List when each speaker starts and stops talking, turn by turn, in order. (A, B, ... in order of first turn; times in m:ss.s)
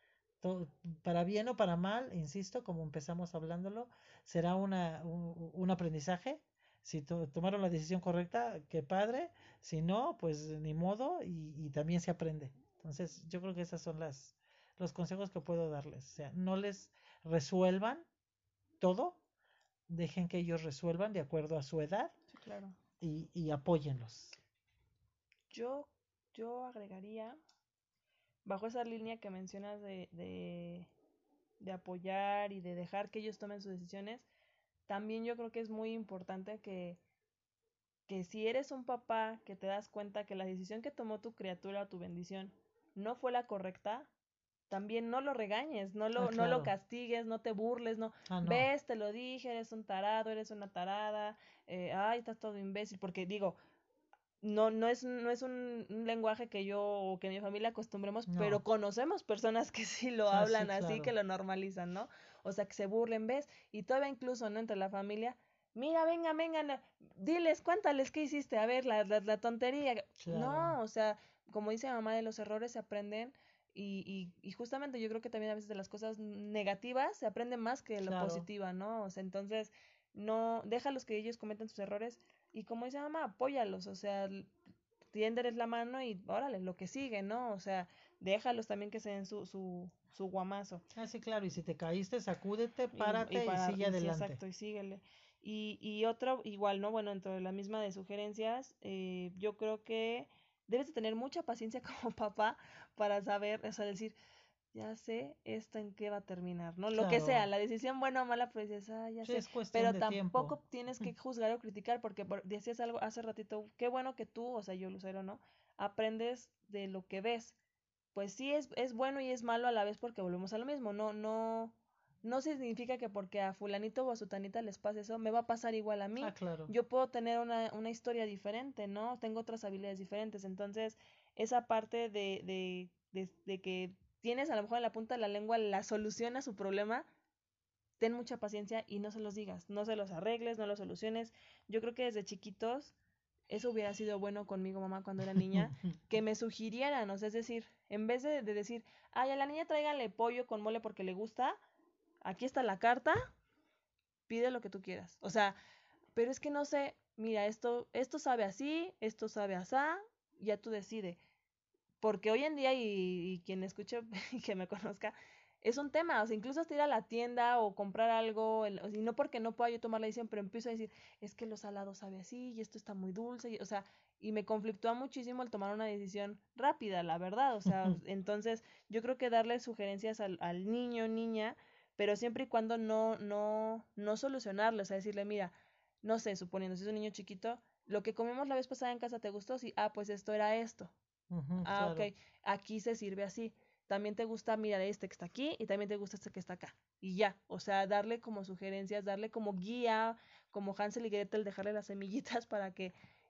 0:00.4-0:18.1 A
0:18.8-0:19.2 A
0:19.9-0:22.1 A
0:22.3-0:22.8 B
0:23.0-0:24.4 A
0:25.5-0:27.4 B
0:28.4-0:30.9 B
0:31.6-0:34.3 B
0:34.9-0:37.0 B
0:38.1-0:44.1 B
0:44.7-0:53.6 B
0:46.2-0:46.7 A
0:48.3-0:48.7 A
0:54.4-1:24.5 B
0:58.3-0:58.6 A
1:00.3-1:01.1 A
1:10.2-1:10.8 A
1:18.0-1:18.4 A
1:25.1-1:30.8 B
1:30.9-1:34.4 A
1:32.9-1:44.2 B
1:44.7-1:57.6 B
1:46.9-1:47.4 A
1:49.2-1:50.6 A
1:58.1-2:17.0 B
2:06.2-2:06.7 A
2:18.0-2:23.0 B
2:23.5-2:31.6 B
2:32.2-2:33.3 B
2:34.3-2:35.6 B
2:36.1-2:41.2 B
2:42.0-3:10.9 B
2:57.7-2:58.0 A
3:11.3-3:12.1 A
3:11.6-3:22.9 B